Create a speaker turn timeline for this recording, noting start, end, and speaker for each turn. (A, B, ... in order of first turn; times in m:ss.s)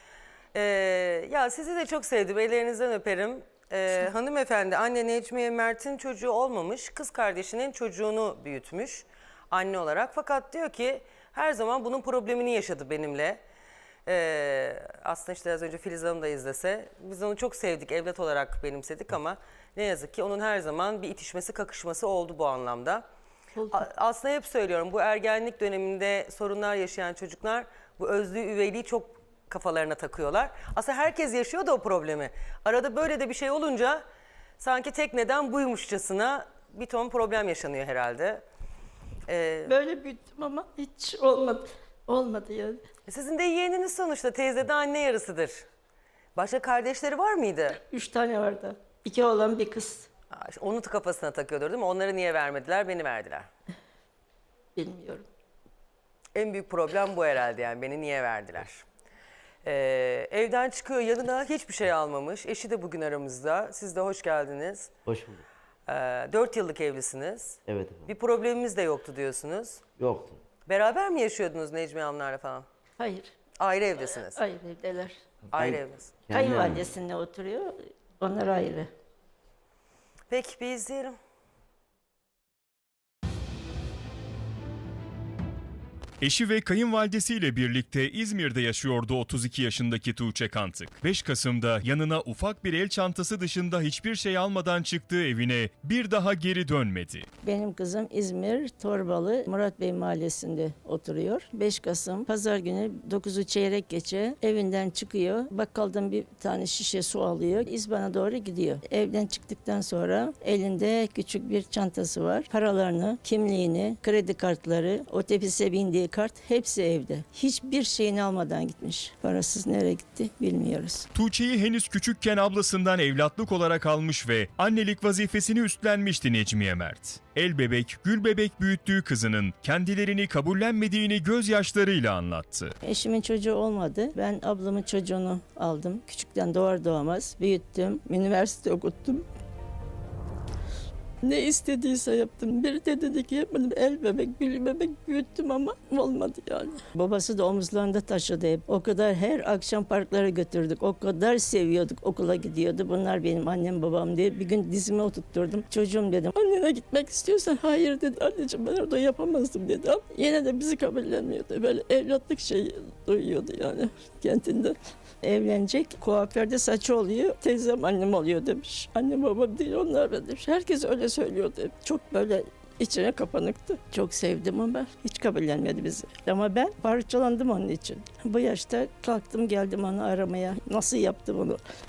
0:00.5-0:13.4 A
0:14.0-0:23.0 A
0:23.7-0:34.0 A
0:34.6-0:38.4 A
0:39.3-0:39.8 A
0:39.6-0:42.8 B
0:43.1-0:45.6 A
0:46.4-0:47.8 A
0:47.8-0:50.1 B
0:50.3-0:53.5 A
0:54.8-0:55.2 B
0:56.3-0:58.8 A
0:59.6-1:04.9 A
1:05.0-1:05.4 C
1:05.8-1:09.8 A
1:07.7-1:08.1 C
1:10.0-1:10.4 C
1:10.6-1:12.6 A
1:13.0-1:13.3 B
1:13.6-1:14.4 A
1:14.1-1:15.1 B
1:15.5-1:16.1 A
1:15.5-1:16.9 C
1:16.3-1:18.9 B
1:20.3-1:21.2 A
1:26.2-1:37.3 D
1:37.4-2:01.1 B
2:01.1-2:12.7 D
2:12.8-2:19.2 B
2:21.2-3:01.6 B